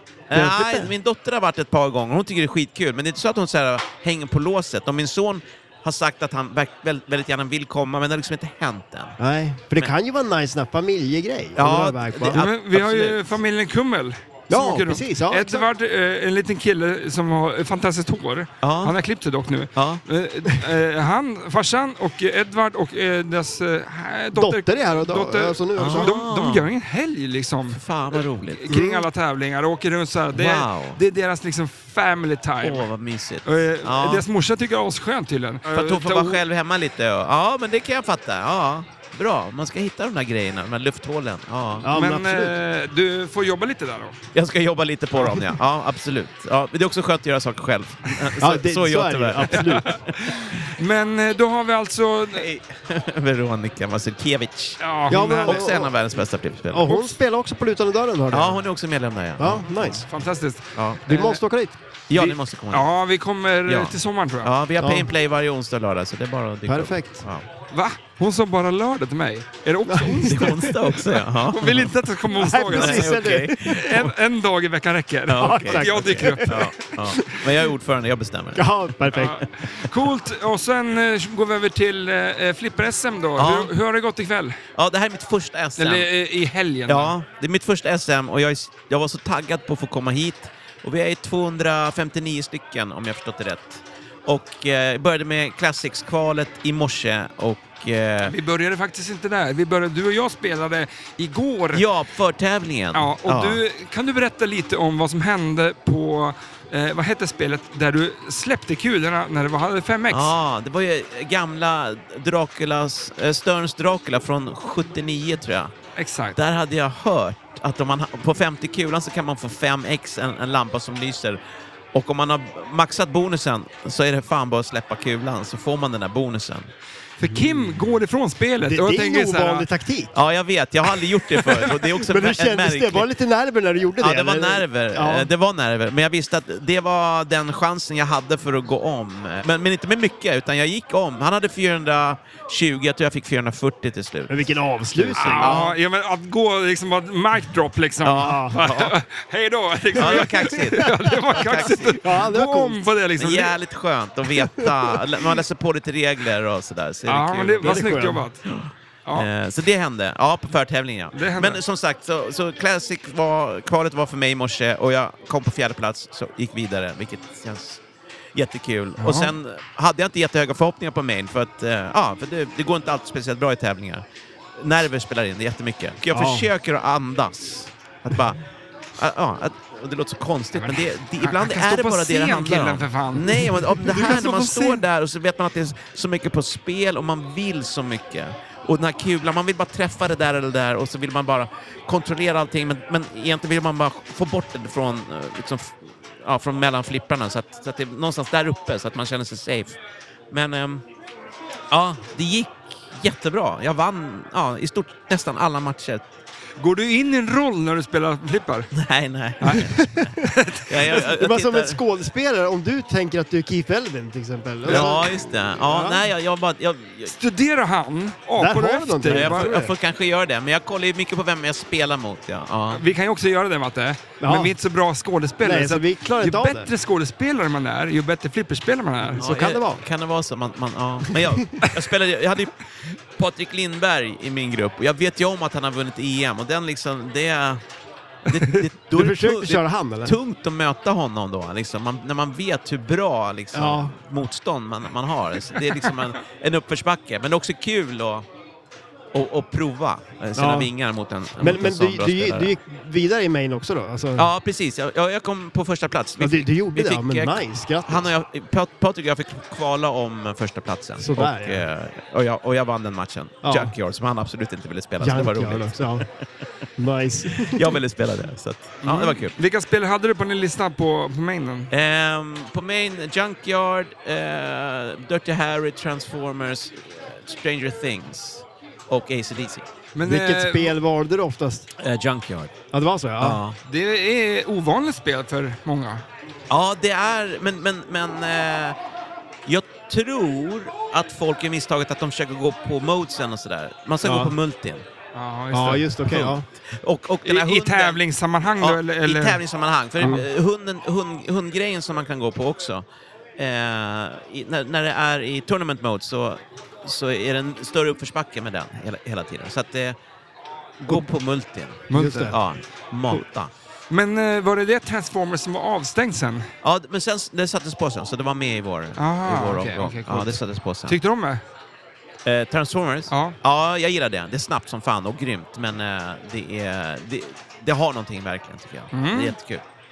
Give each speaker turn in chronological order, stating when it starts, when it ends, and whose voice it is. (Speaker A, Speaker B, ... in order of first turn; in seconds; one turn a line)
Speaker A: 0.3-9.2
Speaker B: 0.3-0.9
Speaker B: 9.2-12.4
Speaker A: 11.6-13.4
Speaker C: 12.3-32.9
Speaker B: 14.5-15.7
Speaker A: 18.6-19.0
Speaker A: 19.8-20.0
Speaker B: 24.4-26.2
Speaker A: 25.8-26.7
Speaker A: 27.7-28.7
Speaker B: 28.7-29.1
Speaker A: 30.3-31.0
Speaker A: 32.6-34.2
Speaker C: 33.5-36.4
Speaker A: 35.7-41.9
Speaker B: 41.8-42.6
Speaker C: 41.9-44.2
Speaker A: 44.3-50.0
Speaker C: 45.1-45.5
Speaker B: 48.4-50.0
Speaker C: 49.6-52.5
Speaker A: 52.4-54.8
Speaker C: 54.8-55.7
Speaker B: 55.1-56.0
Speaker A: 55.4-57.0
Speaker B: 56.7-58.6
Speaker C: 56.9-57.1
Speaker A: 58.3-60.0
Speaker B: 59.4-60.0
Speaker C: 60.0-61.4
Speaker A: 60.8-61.0
Speaker B: 61.1-61.8
Speaker A: 62.1-62.9
Speaker C: 62.1-64.5
Speaker A: 63.7-67.5
Speaker B: 64.8-65.1
Speaker B: 66.7-67.2
Speaker C: 67.7-70.5
Speaker B: 69.9-71.0
Speaker A: 70.3-72.0
Speaker C: 71.5-76.7
Speaker B: 72.3-73.6
Speaker A: 72.7-74.1
Speaker A: 75.3-79.2
Speaker B: 75.4-77.5
Speaker B: 78.6-79.4
Speaker C: 79.1-84.6
Speaker A: 83.4-83.7
Speaker A: 84.8-86.1
Speaker C: 85.8-87.1
Speaker A: 86.9-98.3
Speaker C: 98.2-101.8
Speaker A: 101.7-103.6
Speaker C: 102.9-110.3
Speaker A: 110.1-115.7
Speaker C: 116.0-116.4
Speaker A: 116.4-121.4
Speaker A: 121.9-126.7
Speaker C: 127.2-129.7
Speaker B: 127.3-127.7
Speaker B: 128.6-130.1
Speaker A: 130.1-133.1
Speaker B: 131.5-135.3
Speaker A: 134.0-144.3
Speaker B: 144.3-145.6
Speaker A: 145.0-145.8
Speaker C: 145.2-153.6
Speaker A: 148.0-148.9
Speaker B: 148.2-148.6
Speaker A: 149.9-152.0
Speaker B: 150.0-152.8
Speaker A: 153.2-167.8
Speaker C: 157.1-158.4
Speaker B: 157.6-158.2
Speaker C: 161.1-161.6
Speaker A: 168.3-174.0
Speaker C: 169.0-169.3
Speaker A: 174.6-178.4
Speaker B: 176.1-176.5
Speaker A: 179.0-199.8
Speaker C: 180.6-184.8
Speaker A: 200.3-200.8
Speaker A: 201.7-206.1
Speaker C: 206.6-208.7
Speaker A: 208.7-209.8
Speaker C: 209.4-210.7
Speaker B: 209.5-210.2
Speaker A: 210.7-211.8
Speaker B: 210.9-216.0
Speaker A: 214.7-217.1
Speaker C: 217.1-219.6
Speaker B: 218.4-219.7
Speaker A: 219.1-222.8
Speaker C: 222.7-229.2
Speaker B: 224.2-224.5
Speaker B: 225.4-226.7
Speaker B: 229.2-229.8
Speaker A: 229.2-237.6
Speaker B: 231.1-231.7
Speaker A: 238.3-248.3
Speaker C: 238.3-238.6
Speaker B: 238.9-240.2
Speaker B: 243.5-244.0
Speaker A: 249.1-252.6
Speaker B: 250.4-250.7
Speaker B: 251.4-254.3
Speaker A: 254.2-266.2
Speaker B: 256.2-258.1
Speaker B: 261.0-261.6
Speaker B: 263.4-263.7
Speaker B: 265.0-266.1
Speaker B: 266.8-267.7
Speaker A: 267.4-269.3
Speaker C: 268.8-271.7
Speaker A: 271.7-279.7
Speaker C: 279.9-280.8
Speaker B: 280.0-281.7
Speaker A: 281.8-282.5
Speaker B: 282.7-283.4
Speaker A: 283.2-283.6
Speaker C: 283.7-286.0
Speaker A: 286.5-288.8
Speaker A: 289.5-294.8
Speaker B: 294.0-294.4
Speaker C: 295.1-296.3
Speaker B: 295.5-296.4
Speaker A: 296.1-298.0
Speaker C: 297.2-299.4
Speaker A: 298.6-302.9
Speaker A: 303.4-310.0
Speaker A: 310.8-313.5
Speaker C: 311.9-312.4
Speaker B: 311.9-312.4
Speaker C: 313.9-316.5
Speaker A: 316.6-321.0
Speaker C: 319.0-321.4
Speaker A: 322.2-329.6
Speaker C: 323.1-323.4
Speaker C: 328.9-329.4